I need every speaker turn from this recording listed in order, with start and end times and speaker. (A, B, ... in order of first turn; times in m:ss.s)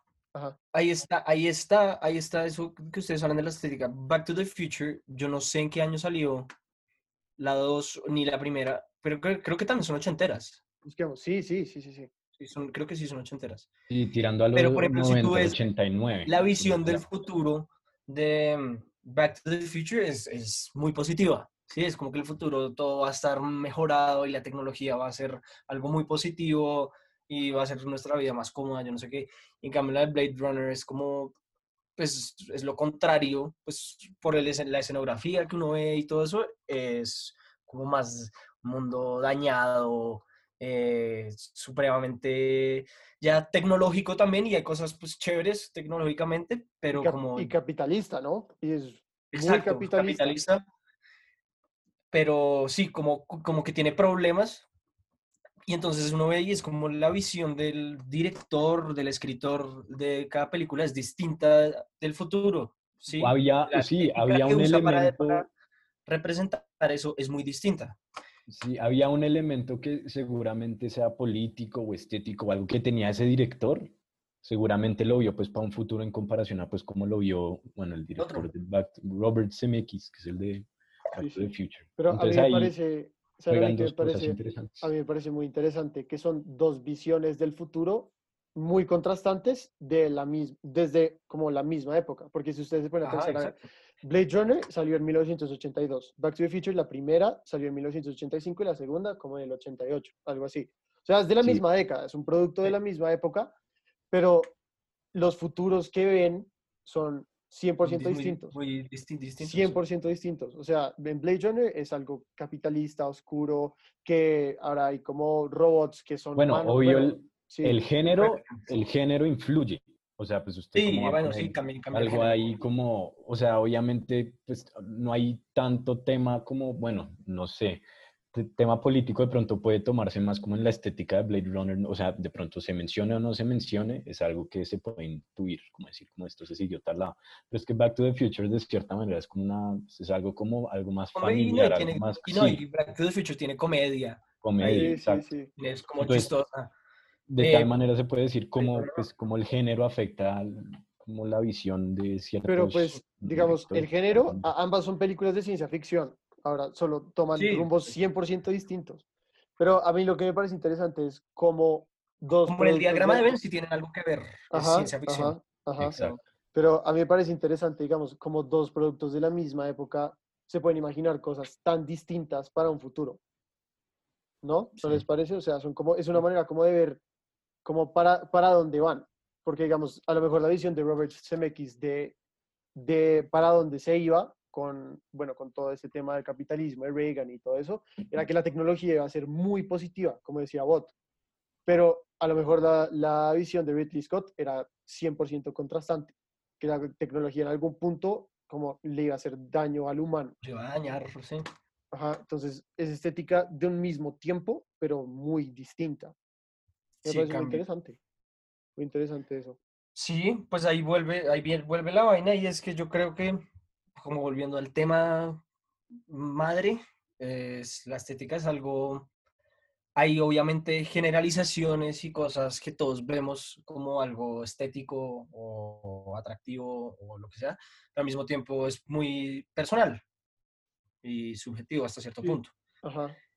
0:00.7-0:06.5 A
0:07.4-0:10.6 A
0:10.8-0:12.1 B
0:12.4-0:13.7 A
0:13.9-0:17.0 C
0:14.5-0:15.6 A
0:16.2-0:31.3 A
0:32.0-0:47.5 A
0:46.9-0:50.3 B
0:49.3-0:50.6 A
0:52.1-0:54.6 A
0:55.6-1:05.5 A
1:03.2-1:05.4 C
1:06.1-1:08.0 A
1:08.5-1:13.9 C
1:14.4-1:22.7 C
1:18.2-1:18.5 A
1:21.2-1:43.5 B
1:23.5-1:24.9 C
1:33.0-1:33.6 A
1:44.1-1:44.5 B
1:45.1-1:48.5 B
1:47.8-1:49.8 A
1:49.4-1:57.8 B
1:56.4-2:22.6 C
1:58.2-1:58.7 A
2:00.7-2:02.5 A
2:21.1-2:24.9 A
2:24.4-2:25.3 C
2:24.6-2:25.5 B
2:25.6-2:26.7 A
2:26.0-2:26.3 C
2:27.3-2:34.5 C
2:27.4-2:27.7 A
2:28.6-2:29.0 A
2:32.5-2:39.0 B
2:37.4-2:37.9 A
2:39.6-2:43.4 B
2:42.4-2:45.4 A
2:44.5-2:46.0 B
2:45.8-2:46.2 C
2:45.9-2:46.2 A
2:46.5-2:53.2 B
2:54.4-2:57.0 B
2:57.6-3:02.2 B
3:02.7-3:10.9 B
3:11.6-3:20.4 B
3:20.4-3:21.4 A
3:21.9-3:26.1 B
3:27.0-3:27.6 A
3:27.0-3:28.0 B
3:28.8-3:29.6 B
3:29.9-3:33.4 A
3:34.0-3:35.4 A
3:36.1-3:39.1 A
3:40.0-3:50.0 A
3:51.0-3:52.5 A
3:52.2-3:53.2 B